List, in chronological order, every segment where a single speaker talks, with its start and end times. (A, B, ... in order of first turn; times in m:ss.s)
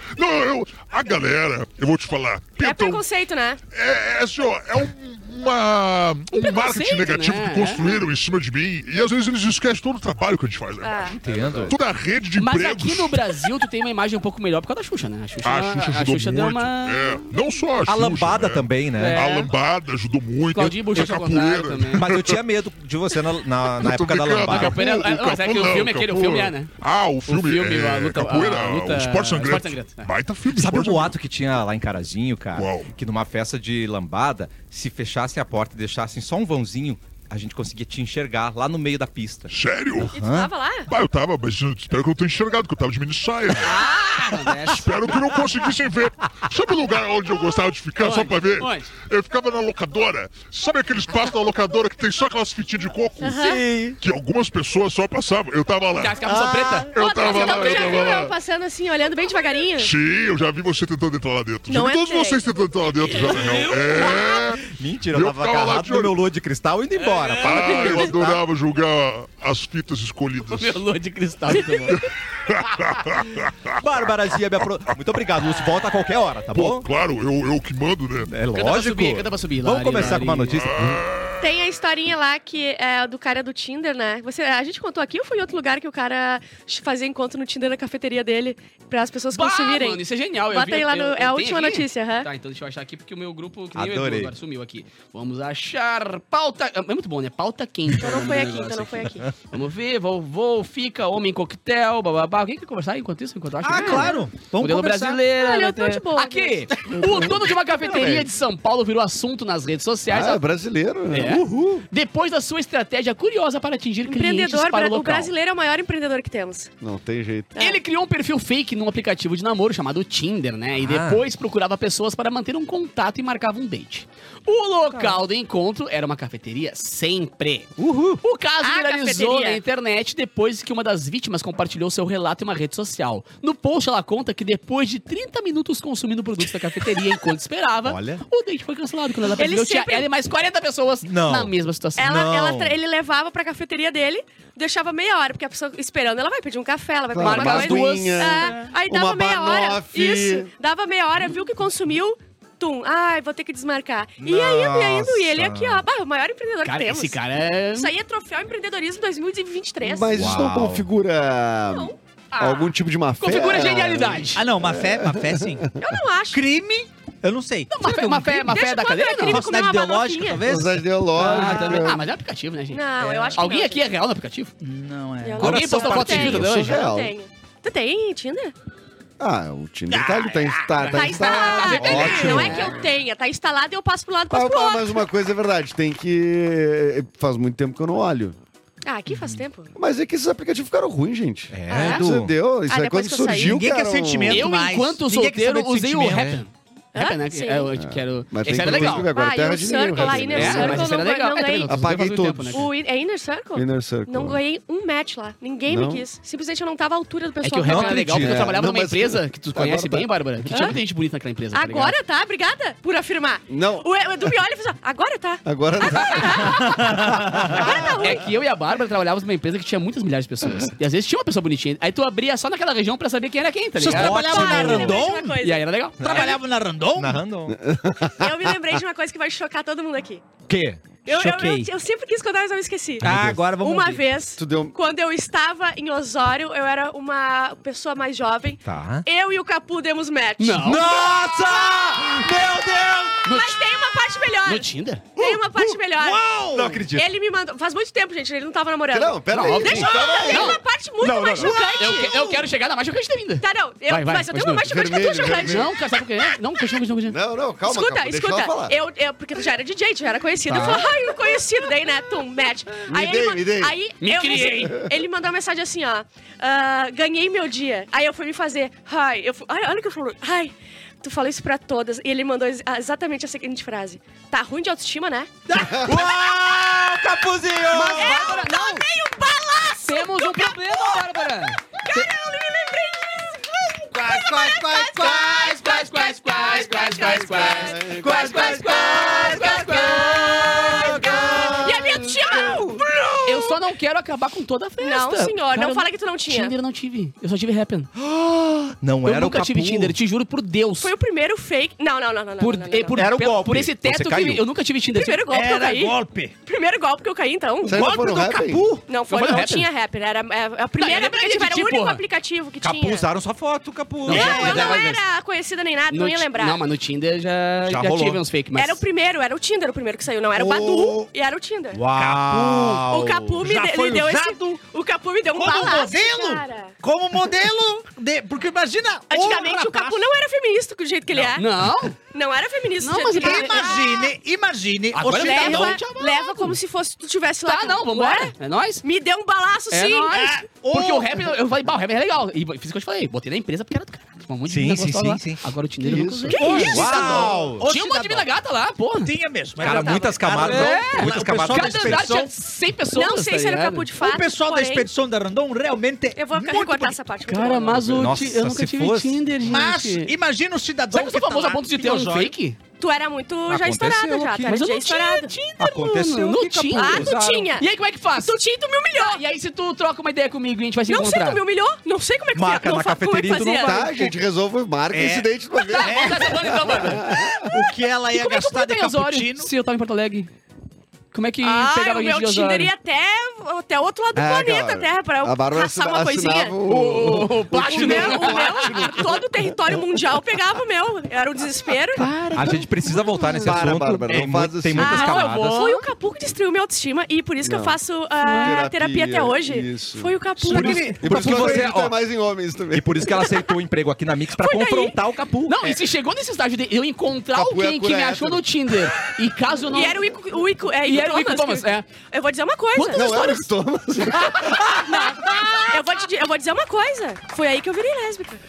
0:00.1-0:03.0 A
0:02.6-0:03.6 B
0:03.7-0:13.5 A
0:06.3-0:08.0 C
0:10.8-0:11.2 B
0:11.1-0:11.8 D
0:12.4-0:17.2 C
0:15.4-0:22.4 A
0:17.9-0:19.2 D
0:19.0-0:19.5 C
0:20.5-0:22.1 C
0:22.0-0:24.8 D
0:23.8-0:31.1 A
0:24.4-0:26.7 C
0:27.2-0:30.1 C
0:30.5-0:39.5 D
0:32.6-0:32.9 A
0:39.5-0:40.1 A
0:40.1-0:40.5 D
0:40.1-0:40.9 B
0:40.9-0:43.9 A
0:43.6-0:45.2 C
0:44.7-0:53.4 A
0:48.0-0:48.9 C
0:53.2-0:53.6 B
0:53.2-0:54.0 D
0:54.0-0:56.3 A
0:56.0-0:58.0 C
0:56.2-0:56.9 D
0:56.9-0:58.3 A
0:56.9-0:59.9 B
0:59.8-1:06.2 A
1:01.7-1:02.4 B
1:04.6-1:08.4 D
1:07.0-1:07.6 C
1:07.4-1:10.8 A
1:10.5-1:12.0 C
1:11.6-1:11.9 B
1:11.9-1:13.7 A
1:13.8-1:16.9 D
1:16.5-1:18.3 A
1:18.2-1:21.0 D
1:18.5-1:20.6 C
1:20.0-1:21.5 A
1:21.4-1:32.3 B
1:29.3-1:50.4 C
1:33.7-1:34.3 D
1:38.0-1:39.3 B
1:43.6-1:45.2 E
1:43.7-1:44.2 B
1:45.4-1:46.7 B
1:46.9-1:48.3 F
1:50.1-1:51.4 F
1:51.1-1:55.3 C
1:51.3-1:51.8 D
1:54.1-1:56.7 B
1:56.8-1:57.6 F
1:57.6-1:57.8 B
1:57.6-2:22.0 C
2:00.8-2:01.2 D
2:07.8-2:08.2 D
2:08.6-2:09.6 B
2:17.8-2:18.2 D
2:19.4-2:20.1 B
2:21.0-2:22.7 D
2:22.0-2:37.2 B
2:27.1-2:30.5 F
2:27.2-2:28.7 C
2:34.2-2:35.8 D
2:36.6-2:37.9 C
2:37.7-2:40.2 B
2:39.8-2:45.6 F
2:40.1-2:40.8 D
2:41.7-2:42.0 B
2:42.3-2:44.4 C
2:44.4-2:45.7 E
2:45.8-2:46.4 B
2:46.3-2:48.6 E
2:47.7-2:49.4 C
2:48.5-2:50.4 B
2:49.2-2:50.8 E
2:50.4-2:52.0 F
2:51.2-2:54.5 C
2:51.4-2:51.9 B
2:52.7-2:53.8 B
2:54.6-2:55.9 E
2:55.2-2:58.5 B
2:55.4-2:56.8 C
2:55.4-2:56.5 D
2:56.2-2:57.1 F
2:59.2-3:02.8 F
2:59.9-3:00.7 E
3:00.8-3:02.8 C
3:00.9-3:05.0 B
3:01.9-3:02.5 D
3:04.3-3:08.4 F
3:08.8-3:09.7 B
3:09.1-3:09.4 D
3:09.7-3:14.5 F
3:11.5-3:12.3 D
3:11.7-3:12.1 B
3:12.6-3:13.6 B
3:13.4-3:16.4 E
3:14.2-3:19.1 C
3:16.1-3:16.4 D
3:16.9-3:17.7 B
3:17.7-3:20.9 F
3:19.1-3:21.7 B
3:20.0-3:22.6 C
3:21.6-3:22.7 F
3:22.5-3:28.2 B
3:23.6-3:24.4 F
3:25.6-3:26.1 F
3:27.4-3:32.0 C
3:27.6-3:28.5 D
3:28.1-3:30.1 F
3:30.5-3:30.8 B
3:31.5-3:38.2 B
3:33.5-3:33.9 F
3:35.4-3:36.8 F
3:37.4-3:37.6 D
3:37.9-3:46.3 C
3:43.8-3:45.4 E
3:43.9-3:45.0 D
3:44.1-3:46.3 B
3:46.0-3:46.4 D
3:46.0-3:47.2 E
3:46.9-3:47.6 D
3:47.5-3:48.6 F
3:48.2-3:50.2 B
3:50.5-3:50.8 D
3:51.1-4:01.8 B
3:51.1-3:51.7 E
3:53.0-3:53.6 D
3:53.0-3:54.0 E
3:54.4-3:54.8 F
3:58.6-3:59.0 D
4:00.4-4:00.8 C
4:00.6-4:03.3 D
4:03.2-4:03.6 C
4:03.2-4:06.2 B
4:04.4-4:05.1 C
4:05.2-4:05.8 D
4:06.0-4:06.8 E
4:06.4-4:07.1 D
4:06.9-4:12.2 B
4:08.9-4:10.6 F
4:09.3-4:10.6 C
4:11.0-4:11.6 D
4:11.3-4:12.1 E
4:11.4-4:14.7 C
4:13.4-4:15.9 B
4:14.6-4:15.7 F
4:15.3-4:17.2 C
4:17.1-4:18.8 F
4:17.6-4:35.3 B
4:20.5-4:20.8 C
4:22.9-4:23.7 F
4:24.0-4:24.8 C
4:35.5-4:38.2 D
4:35.6-4:35.9 F
4:37.7-4:38.9 C
4:37.9-4:52.9 B
4:39.8-4:41.6 C
4:44.0-4:45.5 F
4:44.3-4:44.6 D
4:45.2-4:50.4 C
4:46.8-4:48.4 F
4:48.1-4:48.5 E
4:48.1-4:51.8 D
4:49.0-4:49.9 E
4:50.9-4:52.6 F
4:53.2-4:57.9 C
4:54.8-4:56.6 B
4:58.0-5:00.0 D
4:59.0-5:00.9 C
5:00.8-5:03.0 B
5:02.4-5:05.2 C
5:02.9-5:03.3 E
5:03.0-5:04.4 D
5:04.9-5:07.9 B
5:05.3-5:06.3 E
5:07.6-5:08.7 F
5:07.6-5:08.8 E
5:08.9-5:13.1 B
5:09.1-5:09.7 C
5:10.8-5:12.0 C
5:12.6-5:14.9 D
5:14.1-5:14.9 C
5:14.1-5:16.6 B
5:14.1-5:14.9 E
5:15.9-5:18.8 C
5:17.6-5:18.2 D
5:18.6-5:21.8 B
5:20.4-5:21.0 D
5:21.7-5:23.4 D
5:21.9-5:22.8 E
5:22.7-5:26.8 B
5:23.4-5:24.6 E
5:25.3-5:30.0 E
5:29.1-5:31.4 B
5:31.4-5:32.0 C
5:32.1-5:34.1 B
5:32.8-5:33.8 C
5:33.1-5:35.9 E
5:34.9-5:36.6 C
5:35.1-5:40.2 B
5:37.4-5:38.8 C
5:39.7-5:49.1 C
5:40.1-5:41.3 E
5:44.4-5:45.4 D
5:45.8-5:47.2 F
5:46.3-5:46.9 B
5:46.4-5:48.3 E
5:46.5-5:47.7 D
5:49.0-5:52.3 E
5:49.6-5:52.1 D
5:49.6-5:50.2 B
5:50.3-5:53.9 C
5:52.9-5:54.9 B
5:54.0-5:57.0 E
5:56.2-5:57.8 B
5:57.3-6:00.1 C
5:57.9-5:59.3 D
5:59.4-6:02.3 E
6:00.9-6:02.6 C
6:02.8-6:05.4 B
6:03.5-6:04.6 D
6:04.5-6:08.4 C
6:05.6-6:07.6 D
6:06.8-6:09.2 B
6:09.0-6:11.4 C
6:10.9-6:13.8 B
6:12.3-6:14.2 D
6:13.6-6:17.6 F
6:14.9-6:16.6 E
6:15.7-6:17.1 C
6:17.3-6:19.5 E
6:18.1-6:20.3 C
6:21.1-6:22.7 C
6:21.4-6:26.6 B
6:24.1-6:29.8 F
6:26.6-6:29.0 C
6:27.6-6:32.1 B
6:32.0-6:33.3 C
6:32.3-6:35.6 D
6:33.4-6:35.1 F
6:34.8-6:40.9 B
6:34.8-6:35.9 C
6:37.4-6:37.8 F
6:38.2-6:38.6 C
6:38.3-6:40.1 F
6:40.4-6:41.8 E
6:40.5-6:41.9 D
6:40.9-6:43.2 F
6:42.7-6:45.8 D
6:44.4-6:45.0 B
6:45.5-6:50.1 C
6:47.3-6:48.5 F
6:49.7-6:53.5 B
6:50.8-6:51.9 C
6:52.7-6:53.2 C
6:52.9-6:54.8 F
6:54.7-6:58.4 B